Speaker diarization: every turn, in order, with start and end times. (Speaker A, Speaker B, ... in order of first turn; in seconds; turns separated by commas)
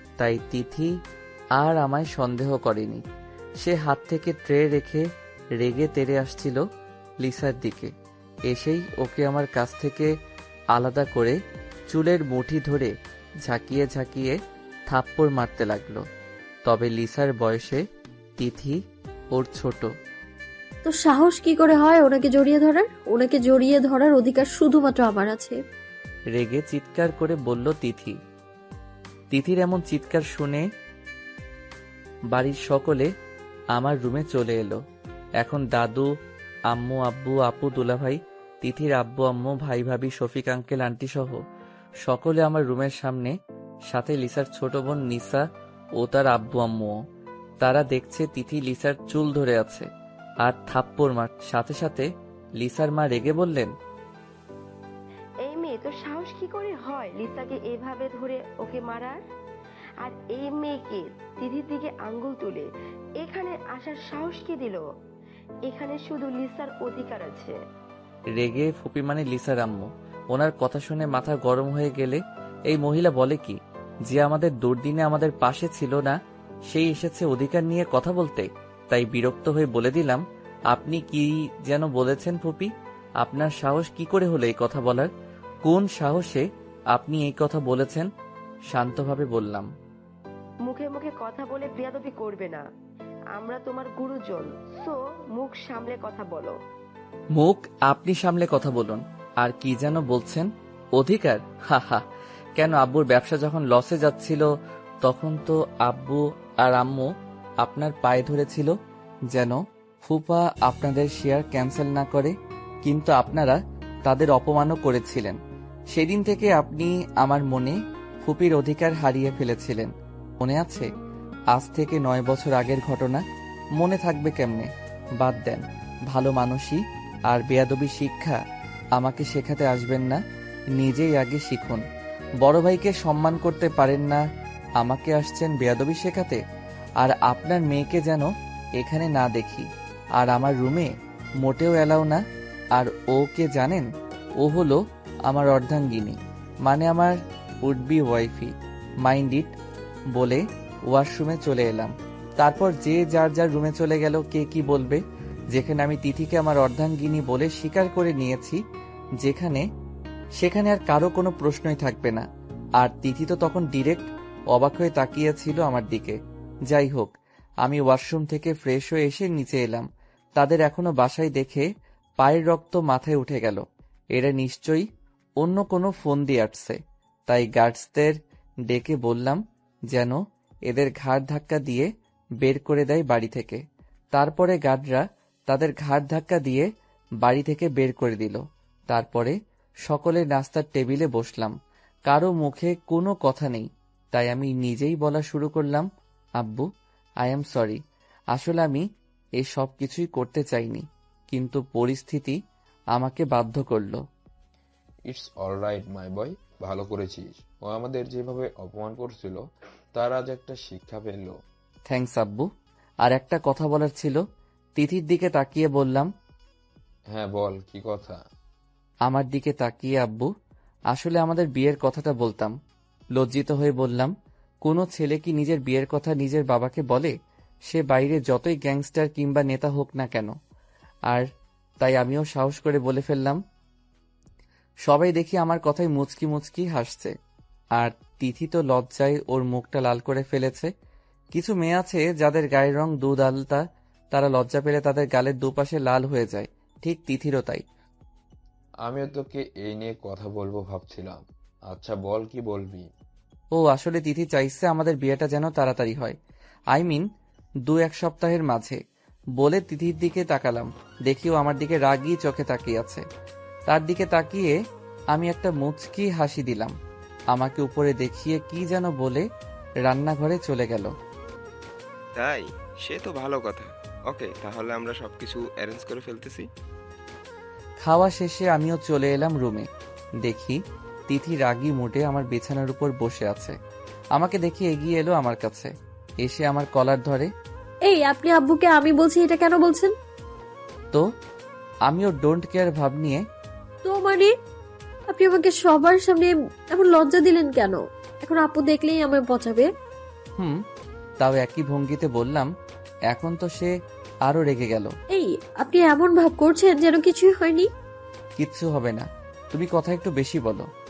Speaker A: 0.2-0.9, Speaker A: 1.6-3.0, Speaker A: 3.6-5.1, Speaker A: 5.6-6.6, Speaker A: 7.2-7.9, Speaker A: 8.5-10.1, Speaker A: 10.7-11.4, Speaker A: 11.9-12.9, Speaker A: 13.4-14.4, Speaker A: 14.9-16.1, Speaker A: 16.7-17.8, Speaker A: 18.4-18.8, Speaker A: 19.3-19.9, Speaker B: 20.9-25.6, Speaker A: 26.4-28.2, Speaker A: 29.3-30.6, Speaker A: 32.3-33.1, Speaker A: 33.8-34.8, Speaker A: 35.4-36.1, Speaker A: 36.7-41.4, Speaker A: 42.0-43.3, Speaker A: 43.9-45.4, Speaker A: 46.0-47.0, Speaker A: 47.6-49.9, Speaker A: 50.4-52.1, Speaker A: 52.6-53.7, Speaker C: 55.4-59.2, Speaker C: 60.0-62.7, Speaker C: 63.2-64.8, Speaker C: 65.7-67.6, Speaker A: 68.4-76.2, Speaker A: 76.7-85.1, Speaker A: 85.7-88.1, Speaker A: 88.7-89.7, Speaker C: 90.7-92.6, Speaker C: 93.3-96.5, Speaker A: 97.4-102.0, Speaker A: 102.6-104.5, Speaker A: 105.0-107.1, Speaker A: 107.6-108.7, Speaker A: 109.3-112.3, Speaker A: 112.8-115.4, Speaker A: 115.9-120.9, Speaker A: 121.5-123.2, Speaker A: 123.8-128.4, Speaker A: 129.0-130.2, Speaker A: 130.8-131.8, Speaker A: 132.4-134.2, Speaker A: 134.8-136.4, Speaker A: 137.0-139.7, Speaker A: 140.2-142.2, Speaker A: 142.8-143.9, Speaker A: 144.4-149.6, Speaker A: 150.1-155.0, Speaker A: 155.5-158.6, Speaker A: 159.2-159.7, Speaker A: 160.4-162.2, Speaker A: 162.8-166.2, Speaker A: 166.7-167.1, Speaker A: 167.6-171.7, Speaker A: 172.2-174.9, Speaker A: 175.4-178.2, Speaker A: 178.7-179.4, Speaker A: 179.9-181.9, Speaker A: 182.4-183.6, Speaker A: 184.2-186.7, Speaker A: 187.2-189.3, Speaker A: 189.9-191.6, Speaker A: 192.1-195.9, Speaker A: 196.4-196.7, Speaker A: 197.2-197.8, Speaker A: 198.3-198.8, Speaker A: 199.4-202.4, Speaker A: 202.9-204.0, Speaker D: 205.1-209.4, Speaker D: 209.9-211.3, Speaker A: 211.9-212.5, Speaker A: 213.1-214.2, Speaker A: 214.8-216.1, Speaker D: 217.1-218.2, Speaker A: 219.1-220.3, Speaker A: 220.9-222.6, Speaker A: 223.2-224.1, Speaker A: 224.7-227.1, Speaker A: 227.7-230.3, Speaker A: 231.8-233.4, Speaker A: 234.9-237.1, Speaker A: 237.8-240.7, Speaker A: 241.3-247.6, Speaker D: 248.8-252.9, Speaker A: 253.6-256.2, Speaker A: 256.7-257.1, Speaker A: 257.7-258.8, Speaker A: 259.4-263.0, Speaker A: 263.7-264.6, Speaker A: 265.1-266.8, Speaker A: 267.3-269.2, Speaker A: 269.9-270.9, Speaker E: 272.1-276.5, Speaker A: 277.8-279.7, Speaker A: 280.2-283.6, Speaker A: 284.1-285.7, Speaker A: 286.2-287.3, Speaker B: 287.9-289.9, Speaker A: 291.9-293.2, Speaker B: 293.9-294.3, Speaker B: 295.1-299.7, Speaker A: 301.2-302.5, Speaker A: 303.1-303.7, Speaker A: 304.3-304.9, Speaker B: 305.1-307.7, Speaker A: 308.4-310.7